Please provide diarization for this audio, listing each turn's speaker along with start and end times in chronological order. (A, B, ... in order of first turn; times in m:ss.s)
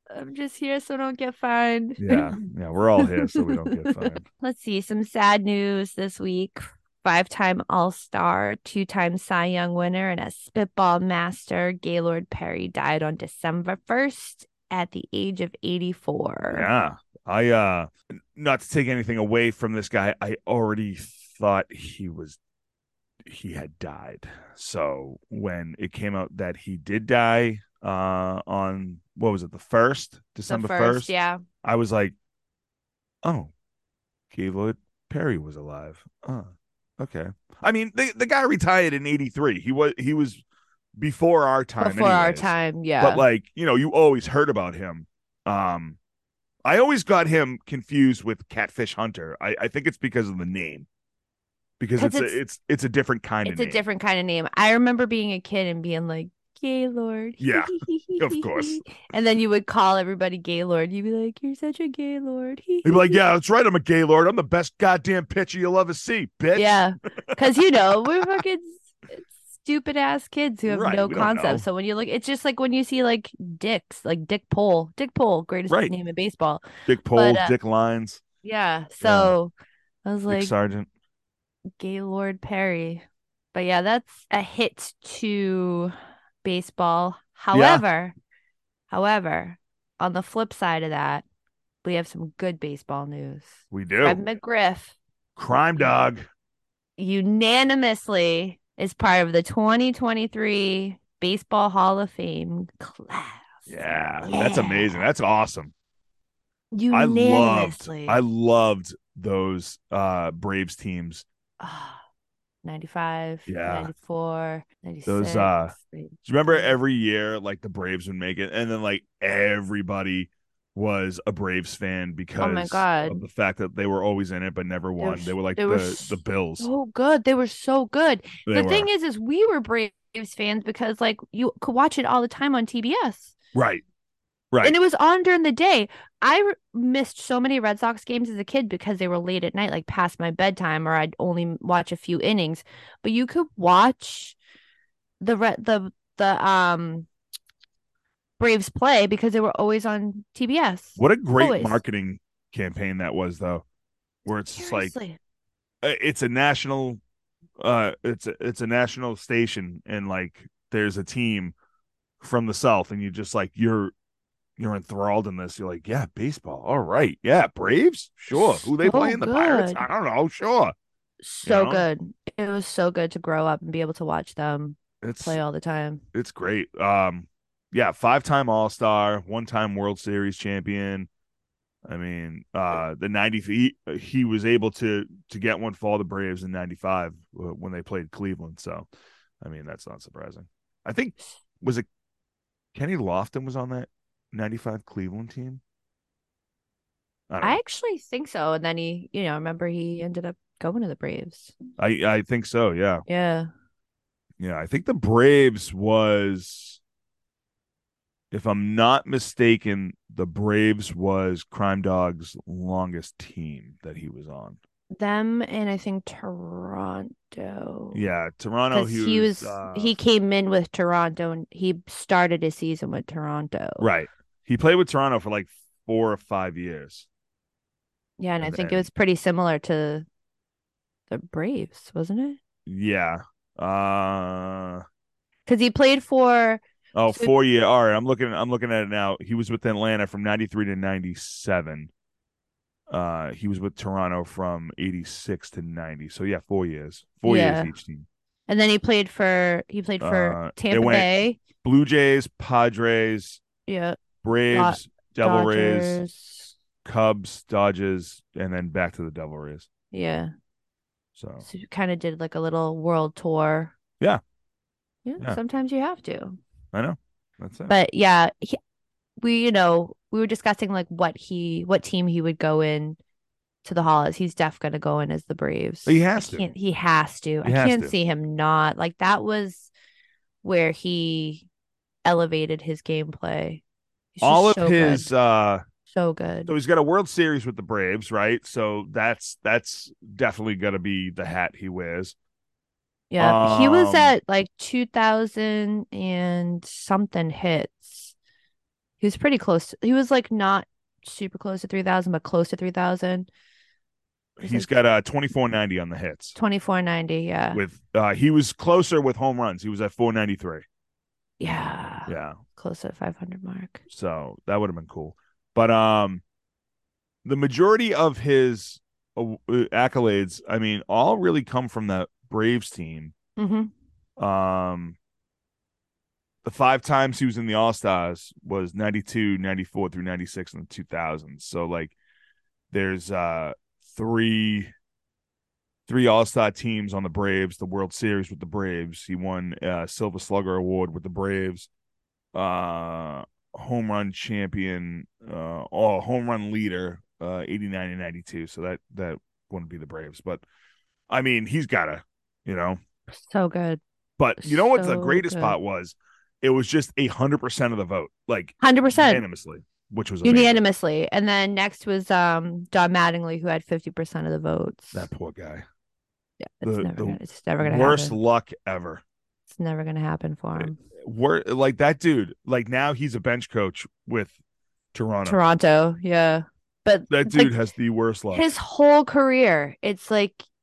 0:00.1-0:02.4 A
0:02.0-0:04.2 B
0:03.0-0:16.7 A
0:16.5-0:22.4 B
0:23.2-0:31.1 B
0:30.5-0:31.4 A
0:31.6-0:32.2 B
0:33.2-0:33.5 B
0:34.3-0:40.4 B
0:41.0-0:46.0 B
0:41.8-0:43.2 A
0:46.7-0:50.9 B
0:51.8-0:53.8 B
0:52.0-0:52.4 A
0:53.4-1:03.2 A
0:57.4-0:58.8 B
1:02.8-1:08.4 B
1:06.6-1:17.6 A
1:10.7-1:11.6 B
1:15.7-1:15.9 B
1:16.9-1:18.2 B
1:18.4-1:19.5 A
1:19.0-1:19.4 B
1:20.0-1:20.5 A
1:20.3-1:20.9 B
1:21.8-1:28.1 A
1:27.5-1:27.8 B
1:28.9-1:31.2 A
1:31.8-1:35.0 A
1:33.7-1:34.2 B
1:35.4-1:36.2 B
1:37.0-1:45.1 A
1:43.7-1:45.7 B
1:46.7-1:48.2 A
1:46.9-1:51.2 B
1:51.6-1:52.0 A
1:52.6-1:56.7 A
1:53.5-1:53.9 B
1:55.1-2:06.7 B
2:02.4-2:03.2 A
2:05.0-2:13.4 A
2:08.5-2:08.9 B
2:13.5-2:13.8 B
2:14.6-2:24.4 A
2:25.2-2:27.1 A
2:28.4-2:31.8 A
2:31.0-2:33.6 B
2:34.3-2:34.9 B
2:34.5-2:35.2 A
2:35.8-2:37.0 B
2:37.6-2:41.6 B
2:42.2-2:43.9 B
2:44.6-2:50.7 B
2:48.3-2:49.8 A
2:51.2-2:56.0 A
2:51.4-2:51.9 B
2:55.0-2:55.4 B
2:56.1-3:01.1 B
3:01.9-3:08.9 B
3:09.4-3:11.9 B
3:12.7-3:15.6 B
3:17.3-3:17.6 B
3:17.4-3:21.5 A
3:21.8-3:23.0 B
3:23.1-3:23.5 A
3:24.4-3:26.8 B
3:28.3-3:34.6 B
3:34.9-3:38.0 A
3:37.9-3:40.0 B
3:38.7-3:43.9 A
3:43.8-3:47.1 B
3:48.2-3:50.1 A
3:48.4-3:48.9 B
3:51.1-3:52.4 A
3:52.7-3:54.8 B
3:55.5-3:57.3 A
3:57.0-4:01.9 B
4:02.9-4:08.1 B
4:07.2-4:07.7 A
4:08.5-4:11.4 A
4:10.0-4:11.1 B
4:11.6-4:13.4 B
4:13.7-4:16.6 A
4:14.2-4:16.0 B
4:16.8-4:19.7 B
4:19.9-4:20.3 A
4:21.2-4:21.5 B
4:21.4-4:23.8 A
4:25.0-4:26.4 A
4:26.7-4:27.7 B
4:27.7-4:28.6 A
4:29.2-4:33.0 A
4:33.6-4:39.7 A
4:35.9-4:36.5 B
4:37.4-4:37.9 B
4:40.4-4:41.5 A
4:42.0-4:43.6 A
4:44.2-4:45.1 A
4:44.2-4:45.6 B
4:45.9-4:46.5 A
4:46.5-4:52.2 B
4:53.1-4:58.2 A
4:53.2-4:54.1 B
4:59.0-5:03.3 A
5:04.4-5:06.4 B
5:04.4-5:04.7 A
5:06.4-5:07.6 A
5:07.5-5:10.6 B
5:11.4-5:13.8 A
5:12.1-5:12.4 B
5:13.9-5:16.2 B
5:17.2-5:23.1 B
5:23.4-5:23.7 A
5:24.2-5:25.0 B
5:26.4-5:31.9 B
5:32.7-5:34.7 B
5:35.9-5:41.7 B
5:42.3-5:50.4 B
5:51.1-5:52.8 B
5:53.2-5:53.8 A
5:54.2-6:00.6 B
5:54.4-5:55.6 A
5:58.6-5:59.2 A
6:00.2-6:05.1 A
6:04.9-6:05.6 B
6:06.4-6:08.2 A
6:06.6-6:09.0 B
6:09.5-6:10.8 A
6:10.6-6:14.3 B
6:14.9-6:15.4 B
6:15.2-6:17.6 A
6:17.1-6:18.5 B
6:18.3-6:20.5 A